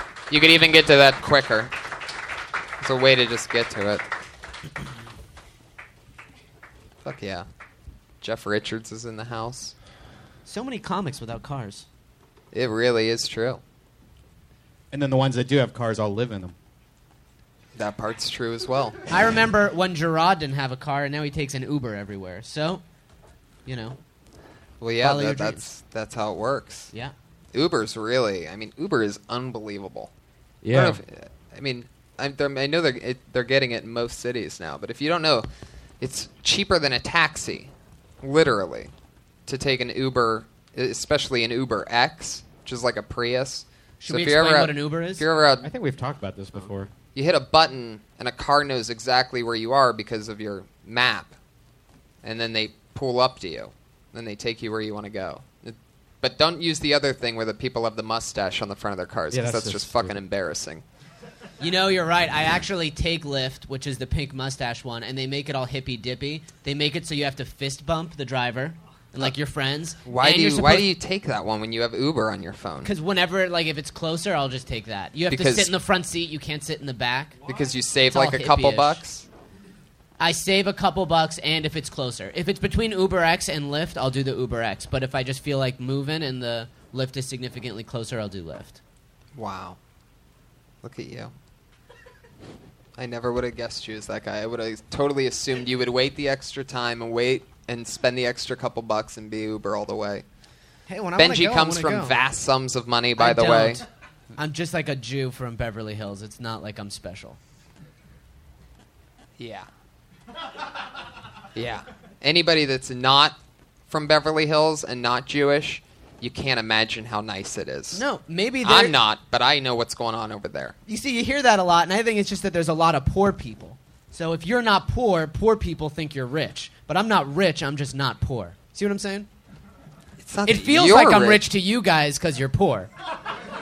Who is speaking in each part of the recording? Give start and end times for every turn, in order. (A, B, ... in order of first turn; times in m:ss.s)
0:00.3-0:01.7 A
0:02.8-0:04.0 A
0:07.0-0:07.4 A
0:08.2-0:09.7 A
0:10.4-0:11.8 B
0:12.5-0:13.6 A
0:14.9-0:16.5 C
0:17.7-0:19.0 A
0:19.1-0:22.8 B
0:23.6-0:24.0 B
0:24.8-0:26.9 A
0:25.0-0:25.7 B
0:27.5-0:30.1 A
0:30.7-0:31.0 C
0:30.7-0:35.5 A
0:36.0-0:38.9 A
0:39.5-0:45.7 A
0:44.0-0:45.2 B
0:45.6-0:46.9 C
0:47.1-0:51.3 A
0:52.2-1:00.8 A
0:59.3-1:00.2 C
1:01.6-1:10.9 B
1:10.0-1:12.9 A
1:12.8-1:17.3 B
1:15.3-1:15.7 A
1:17.4-1:19.3 A
1:18.1-1:19.0 B
1:20.2-1:28.8 B
1:29.3-1:29.8 A
1:30.8-1:31.3 A
1:33.0-1:40.2 A
1:40.9-1:42.2 B
1:41.2-1:43.8 A
1:43.2-1:43.8 B
1:44.4-1:47.4 B
1:49.4-1:49.7 A
1:51.5-1:53.4 A
1:53.9-1:58.0 A
1:57.9-1:59.0 B
1:58.6-2:00.7 A
2:00.9-2:09.3 B
2:10.2-2:11.4 A
2:10.4-2:12.9 B